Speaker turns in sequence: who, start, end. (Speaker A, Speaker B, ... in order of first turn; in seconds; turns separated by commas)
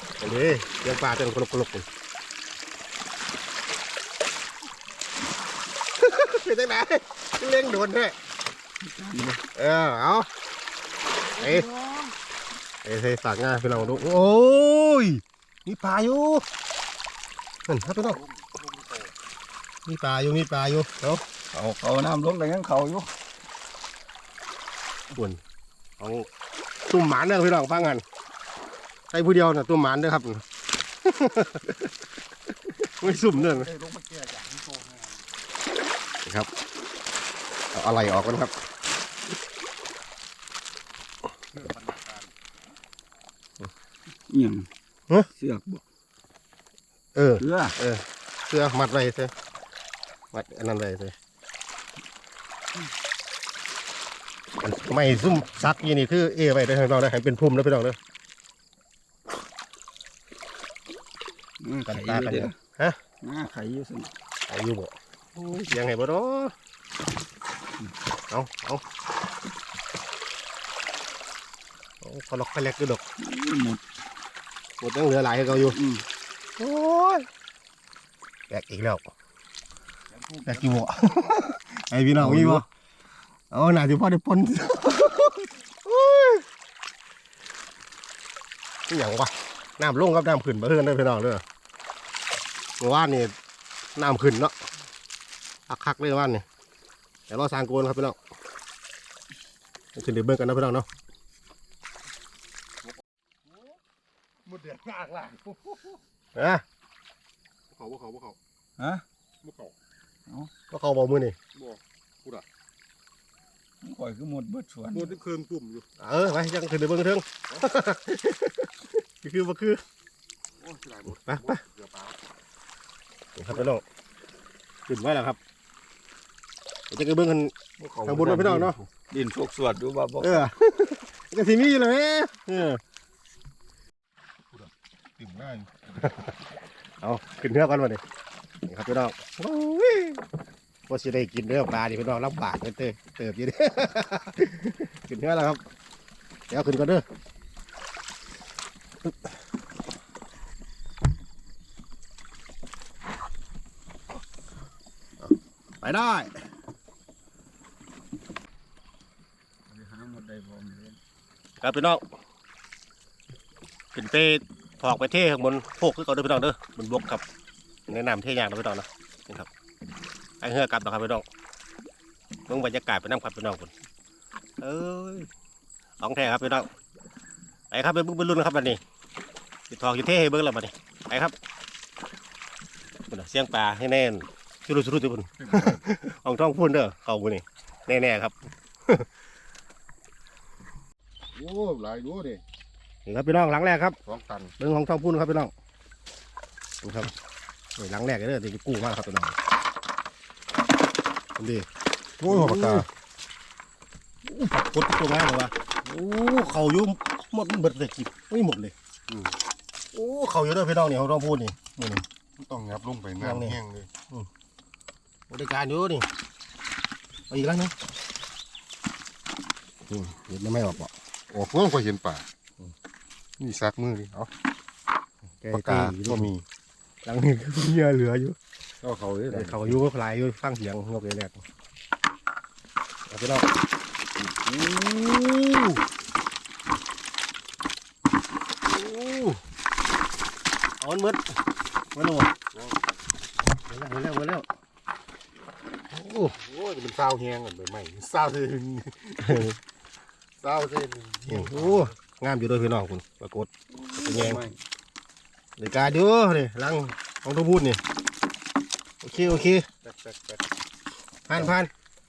Speaker A: 0.2-1.9, Speaker A: 6.0-8.2, Speaker B: 8.8-9.4, Speaker A: 9.5-10.3, Speaker A: 11.4-11.7, Speaker C: 11.4-12.1, Speaker A: 12.8-16.4, Speaker A: 17.7-18.2, Speaker C: 17.8-19.1, Speaker A: 19.9-21.2, Speaker B: 21.5-23.1, Speaker A: 25.1-25.4, Speaker A: 26.0-26.3, Speaker A: 26.9-28.0, Speaker A: 29.1-30.4, Speaker A: 31.0-31.8, Speaker A: 33.0-33.7, Speaker C: 33.0-35.2, Speaker A: 37.7-38.5, Speaker C: 41.5-42.3, Speaker B: 44.3-44.7, Speaker B: 45.3-45.8, Speaker A: 47.1-49.3, Speaker B: 47.4-47.8, Speaker A: 50.3-51.1, Speaker A: 54.6-58.0, Speaker B: 61.6-62.5, Speaker A: 61.9-63.0, Speaker B: 63.2-64.1, Speaker A: 64.5-66.5, Speaker A: 68.3-68.8, Speaker A: 72.0-73.0, Speaker B: 73.2-73.8, Speaker A: 74.8-75.8, Speaker B: 75.5-76.0, Speaker A: 76.6-77.3, Speaker A: 78.5-79.0, Speaker C: 80.1-80.9, Speaker A: 80.4-82.7, Speaker B: 82.2-82.6, Speaker A: 83.5-86.4, Speaker A: 88.9-91.4, Speaker A: 92.8-93.3, Speaker A: 94.0-94.5, Speaker A: 95.7-96.4, Speaker A: 97.3-98.2, Speaker A: 99.9-100.8, Speaker C: 104.5-106.0, Speaker A: 106.3-106.6, Speaker C: 107.7-108.4, Speaker B: 108.8-109.0, Speaker C: 109.4-109.7, Speaker A: 110.7-111.4, Speaker C: 111.5-112.4, Speaker B: 113.8-115.1, Speaker C: 114.9-115.9, Speaker A: 116.0-119.8, Speaker C: 120.6-122.2, Speaker A: 121.1-121.6, Speaker A: 123.3-123.8, Speaker A: 124.9-125.4, Speaker A: 126.9-127.5, Speaker B: 127.8-130.5, Speaker A: 128.0-128.8, Speaker A: 130.2-132.8, Speaker C: 134.5-135.8, Speaker A: 137.0-138.0, Speaker A: 138.7-140.2, Speaker A: 140.9-145.6, Speaker A: 146.5-147.0, Speaker A: 155.8-156.3, Speaker B: 159.7-161.0, Speaker A: 161.6-162.0, Speaker A: 163.9-167.2, Speaker A: 167.9-169.5, Speaker A: 170.4-171.2, Speaker A: 172.5-173.7, Speaker A: 174.6-175.3, Speaker A: 176.0-176.7, Speaker A: 177.7-178.8, Speaker A: 179.7-181.3, Speaker A: 183.1-188.3, Speaker C: 185.4-185.8, Speaker C: 191.3-192.4, Speaker A: 193.1-194.0, Speaker C: 194.1-194.5, Speaker A: 194.6-195.5, Speaker A: 196.8-197.1, Speaker A: 197.8-199.3, Speaker A: 201.4-201.7, Speaker C: 202.2-202.9, Speaker A: 202.2-202.9, Speaker A: 204.2-208.7, Speaker A: 209.9-212.0, Speaker C: 212.4-213.9, Speaker A: 213.2-214.3, Speaker A: 215.3-216.1, Speaker A: 217.3-217.7, Speaker A: 219.9-220.9, Speaker C: 221.3-222.2, Speaker C: 223.4-224.3, Speaker A: 225.4-226.3, Speaker C: 225.5-226.4, Speaker A: 227.0-228.3, Speaker C: 228.8-229.8, Speaker A: 229.3-231.4, Speaker A: 233.1-233.4, Speaker C: 234.2-235.5, Speaker A: 234.7-235.1, Speaker A: 238.7-239.4, Speaker A: 240.8-241.2, Speaker A: 241.9-242.3, Speaker C: 242.5-242.8, Speaker A: 243.7-244.4, Speaker A: 245.9-246.3, Speaker C: 246.3-249.4, Speaker A: 249.2-249.5, Speaker C: 250.4-251.9, Speaker A: 251.3-253.5, Speaker B: 253.7-254.6, Speaker A: 254.0-254.4, Speaker A: 255.6-257.8, Speaker A: 259.0-259.7, Speaker C: 259.8-260.4, Speaker A: 261.3-261.7